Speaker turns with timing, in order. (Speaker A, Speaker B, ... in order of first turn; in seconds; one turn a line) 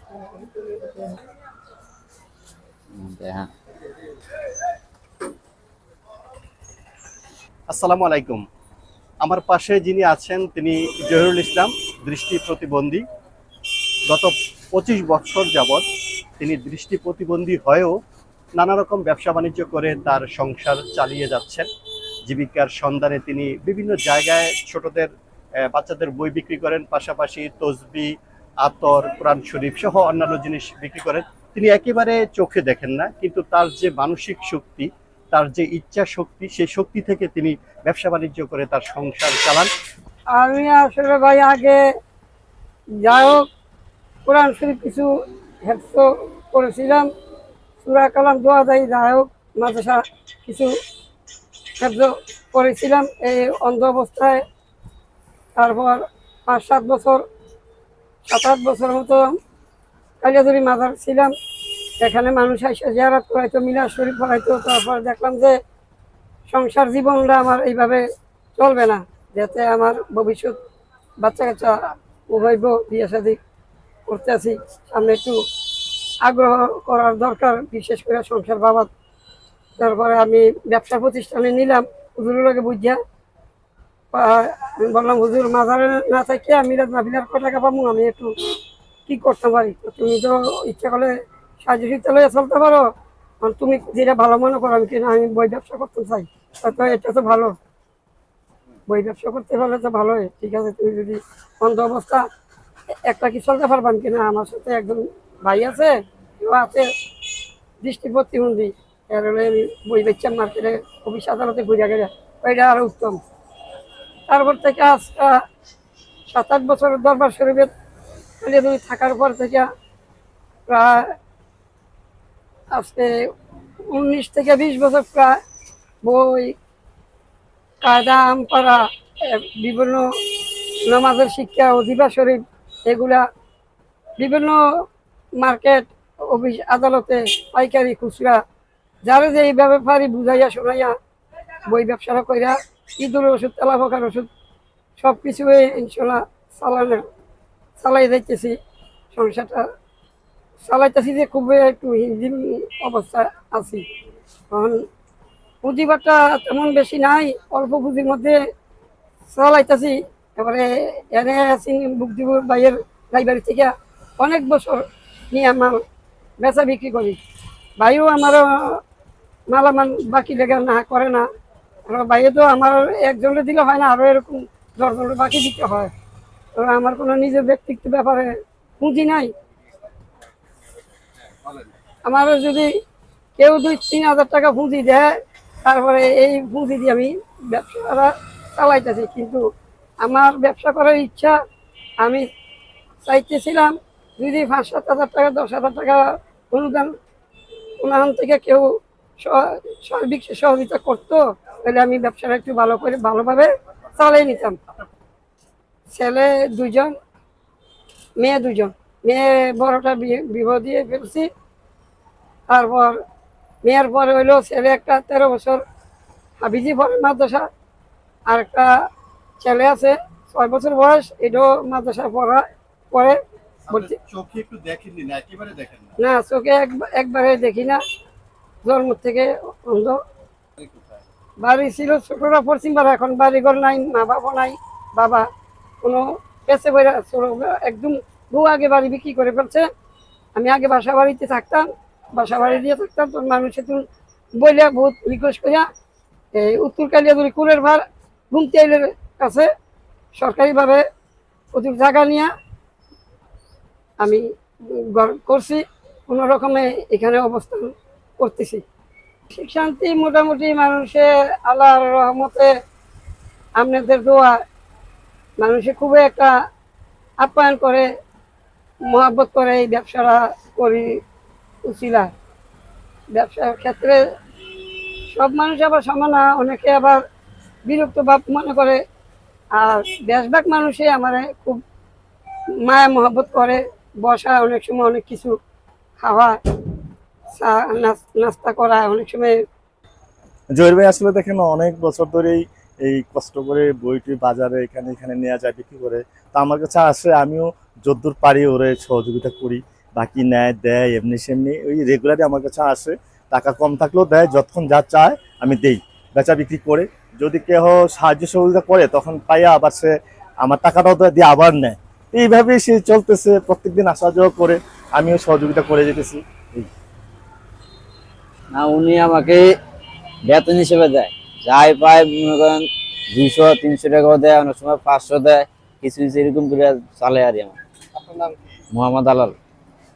Speaker A: 0.2-1.1
Speaker B: 2.9-3.5
Speaker C: 7.7-8.4
Speaker C: 9.2-13.0
Speaker C: 14.1-15.8
Speaker C: 16.4-18.0
Speaker C: 18.5-21.6
Speaker C: 22.2-25.1
Speaker C: 25.6-39.7
Speaker A: 40.3-41.8
Speaker A: 43.0-43.5
Speaker A: 44.2-45.1
Speaker A: 45.6-47.1
Speaker A: 47.8-50.7
Speaker A: 51.8-54.4
Speaker A: 55.5-57.2
Speaker A: 58.2-59.2
Speaker A: 60.2-61.3
Speaker A: 62.0-65.6
Speaker A: 66.5-68.0
Speaker A: 68.5-70.6
Speaker A: 71.2-73.4
Speaker A: 74.1-78.9
Speaker A: 79.8-83.0
Speaker A: 84.1-88.3
Speaker A: 89.1-92.9
Speaker A: 93.4-97.6
Speaker A: 98.9-102.2
Speaker A: 103.0-106.9
Speaker A: 107.8-113.2
Speaker A: 114.3-115.4
Speaker A: 116.3-117.7
Speaker A: 118.4-119.7
Speaker A: 120.7-121.1
Speaker A: 122.7-123.1
Speaker A: 123.9-125.4
Speaker A: 126.0-126.5
Speaker A: 127.8-133.2
Speaker A: 134.2-134.6
Speaker A: 135.4-138.4
Speaker A: 139.0-140.9
Speaker A: 141.7-144.3
Speaker A: 145.0-147.0
Speaker A: 147.8-148.6
Speaker A: 149.1-149.6
Speaker A: 150.6-153.8
Speaker A: 154.5-154.8
Speaker A: 155.6-158.4
Speaker A: 159.3-165.8
Speaker A: 166.4-167.2
Speaker A: 167.8-168.8
Speaker A: 169.5-171.3
Speaker A: 171.9-175.9
Speaker A: 176.6-179.3
Speaker A: 182.1-182.7
Speaker A: 183.4-185.1
Speaker A: 185.6-189.4
Speaker A: 190.0-191.4
Speaker A: 192.0-192.2
Speaker A: 193.0-196.9
Speaker A: 197.8-198.7
Speaker A: 199.2-204.6
Speaker A: 205.9-206.9
Speaker A: 208.2-211.3
Speaker A: 212.5-213.0
Speaker A: 213.6-215.6
Speaker A: 216.4-217.5
Speaker A: 218.3-218.7
Speaker A: 219.4-223.9
Speaker C: 223.7-226.0
Speaker A: 226.0-227.8
Speaker A: 228.6-230.0
Speaker C: 230.6-231.0
Speaker A: 231.4-235.3
Speaker A: 235.8-239.7
Speaker A: 240.3-243.8
Speaker A: 244.4-245.7
Speaker A: 246.3-249.5
Speaker A: 250.1-250.8
Speaker A: 251.5-252.3
Speaker A: 254.0-254.2
Speaker A: 254.9-258.6
Speaker A: 259.3-262.5
Speaker A: 263.6-264.4
Speaker A: 265.4-266.3
Speaker A: 267.2-267.9
Speaker A: 268.9-271.0
Speaker A: 271.6-272.1
Speaker A: 273.1-274.0
Speaker A: 275.1-277.0
Speaker A: 277.7-278.8
Speaker A: 279.6-281.6
Speaker A: 282.6-285.3
Speaker A: 286.0-286.4
Speaker A: 287.3-289.3
Speaker D: 290.5-316.7
Speaker B: 318.5-319.5
Speaker B: 320.2-327.6
Speaker C: 327.9-328.6
Speaker B: 328.7-329.4